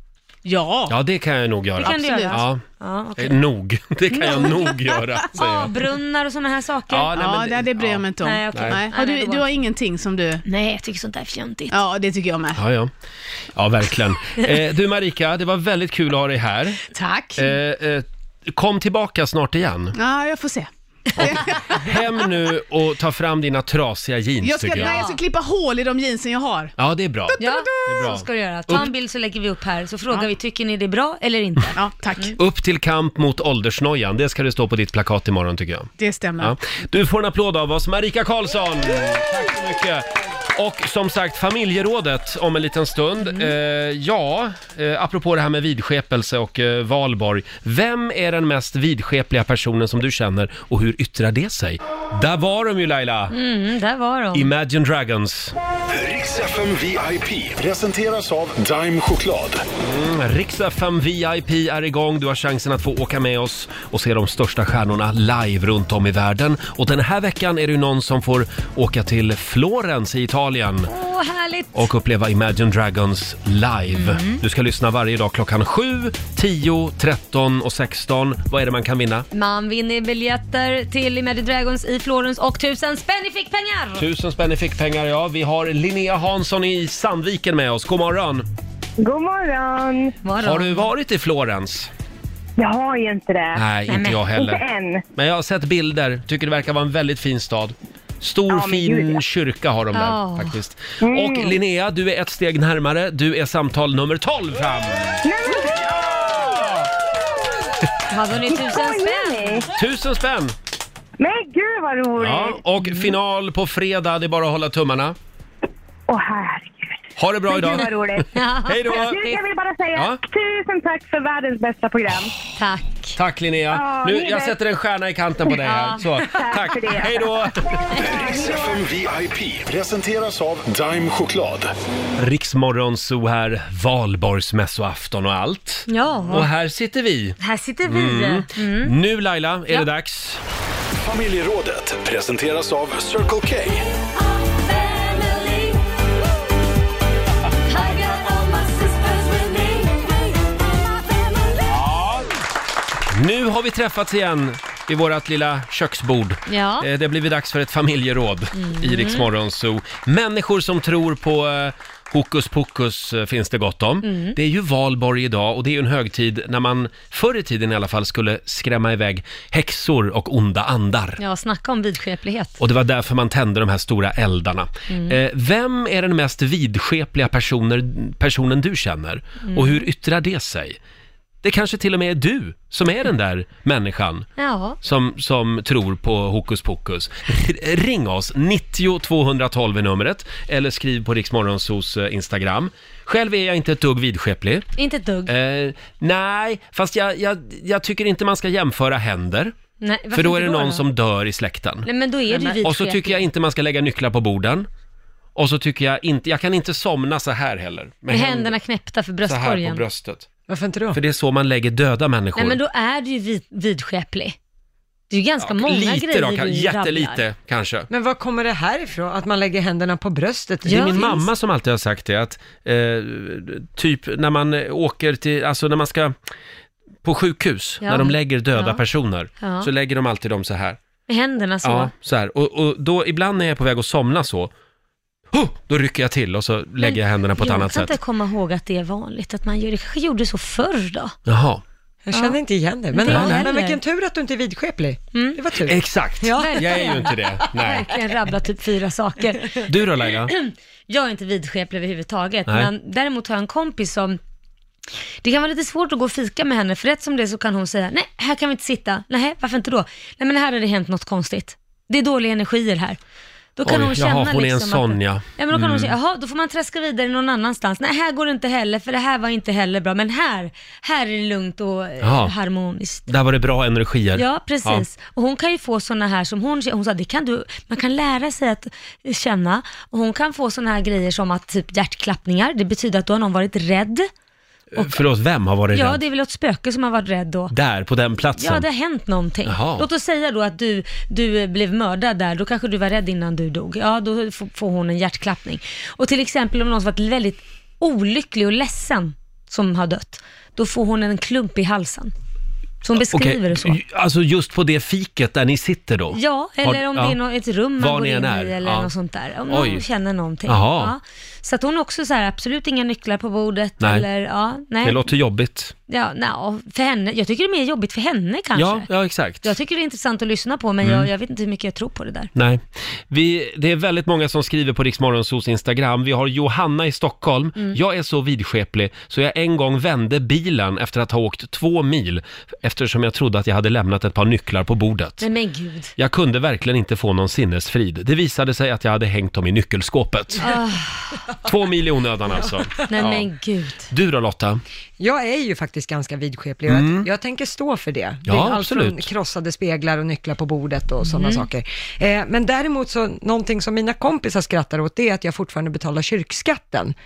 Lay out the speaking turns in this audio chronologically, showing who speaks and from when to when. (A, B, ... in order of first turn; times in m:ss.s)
0:00.4-0:01.0 A
0:00.9-0:02.6 B
0:01.8-0:03.4 C
0:02.0-0:02.4 A
0:03.2-0:05.7 B
0:04.1-0:04.7 C
0:04.3-0:05.0 A
0:05.3-0:07.2 C
0:06.9-0:08.8 B
0:07.1-0:10.4 A
0:08.2-0:09.7 C
0:10.5-0:11.8 C
0:11.7-0:12.6 A
0:12.6-0:12.9 B
0:13.6-0:16.8 B
0:16.9-0:17.5 A
0:17.4-0:20.0 B
0:20.0-0:22.2 A
0:21.2-0:25.0 B
0:24.4-0:26.7 A
0:24.7-0:25.2 C
0:26.8-0:28.9 B
0:27.3-0:28.2 A
0:27.4-0:32.3 C
0:31.8-0:32.4 A
0:32.4-0:53.3 B
0:36.0-0:36.6 A
0:53.3-0:54.5 C
0:54.3-0:55.6 B
0:55.9-0:59.6 D
0:59.8-1:10.9 B
1:10.9-1:11.9 C
1:11.7-1:19.3 B
1:13.9-1:14.4 C
1:19.3-1:24.0 C
1:24.0-1:28.5 B
1:29.0-1:30.1 E
1:30.2-1:30.9 C
1:30.4-1:31.9 B
1:32.6-1:33.6 E
1:33.6-1:34.6 B
1:33.9-1:34.2 C
1:34.3-1:35.0 E
1:35.2-1:45.2 B
1:38.5-1:39.2 E
1:39.9-1:40.6 C
1:41.0-1:41.6 E
1:45.2-1:46.2 E
1:46.1-1:46.9 B
1:48.1-1:49.5 C
1:48.5-1:49.7 E
1:49.8-1:50.5 B
1:51.2-1:52.6 E
1:52.2-1:55.2 B
1:52.8-1:53.2 C
1:56.1-1:58.3 E
1:57.2-1:59.3 B
1:58.3-1:59.4 C
1:58.9-2:02.3 E
1:59.9-2:00.2 B
2:02.6-2:03.2 C
2:03.2-2:07.9 B
2:03.7-2:04.6 E
2:05.6-2:06.3 C
2:06.3-2:08.8 E
2:08.0-2:08.6 C
2:08.0-2:11.7 D
2:12.2-2:20.4 B
2:15.9-2:16.5 C
2:17.4-2:18.9 C
2:21.0-2:23.8 D
2:24.7-2:25.8 C
2:27.7-2:30.1 C
2:31.7-2:32.2 B
2:33.1-2:51.2 B
2:36.5-2:36.9 C
2:38.6-2:39.3 C
2:44.0-2:44.4 C
2:51.2-2:52.6 C
2:52.6-3:00.8 B
2:54.9-2:55.2 C
2:59.4-2:59.8 C
3:01.4-3:04.3 B
3:04.4-3:04.8 C
3:04.8-3:14.7 B
3:14.8-3:15.3 C
3:15.3-3:19.6 B
3:19.8-3:20.9 C
3:20.1-3:24.7 B
3:21.8-3:23.3 C
3:25.4-3:28.6 B
3:28.1-3:29.8 C
3:29.2-3:30.3 B
3:30.5-3:31.0 F
3:30.9-3:32.6 B
3:32.4-3:34.4 C
3:35.1-3:37.2 C
3:35.4-3:37.9 B
3:37.9-3:41.2 F
3:40.7-3:41.2 C
3:40.7-3:46.2 B
3:47.0-3:50.8 B
3:47.8-3:48.8 C
3:49.4-3:49.7 C
3:51.1-3:51.9 C
3:51.6-3:54.5 B
3:55.3-3:58.0 B
3:56.8-4:01.2 C
4:01.3-4:01.6 B
4:02.0-4:07.1 F
4:02.1-4:02.4 C
4:02.9-4:03.8 C
4:03.1-4:03.4 B
4:05.1-4:05.4 C
4:05.7-4:07.9 B
4:06.4-4:14.2 C
4:09.7-4:10.3 B
4:15.2-4:23.0 C
4:23.6-4:33.1 C
4:23.6-4:25.9 B
4:32.0-4:32.3 B
4:33.1-4:34.8 B
4:34.2-4:44.1 C
4:44.7-4:46.0 B
4:44.8-4:45.0 C
4:45.7-4:47.5 C
4:47.5-4:48.6 B
4:48.4-5:02.1 C
4:49.5-4:49.9 B
5:02.8-5:03.8 C
5:03.1-5:07.2 B
5:06.1-5:15.1 C
5:07.8-5:08.9 B
5:09.5-5:09.8 B
5:10.5-5:10.9 B
5:14.8-5:15.7 B
5:15.9-5:18.9 C
5:18.6-5:19.5 B
5:19.4-5:22.3 C
5:20.8-5:21.1 B
5:22.4-5:35.3 B
5:35.2-5:35.9 C
5:36.0-5:40.5 B
5:40.4-5:41.3 C
5:41.4-5:43.3 B
5:42.9-5:43.9 C
5:43.9-5:44.6 B
5:45.0-5:57.0 F
5:46.7-5:47.1 B
5:48.3-5:49.1 B
5:51.1-5:51.5 C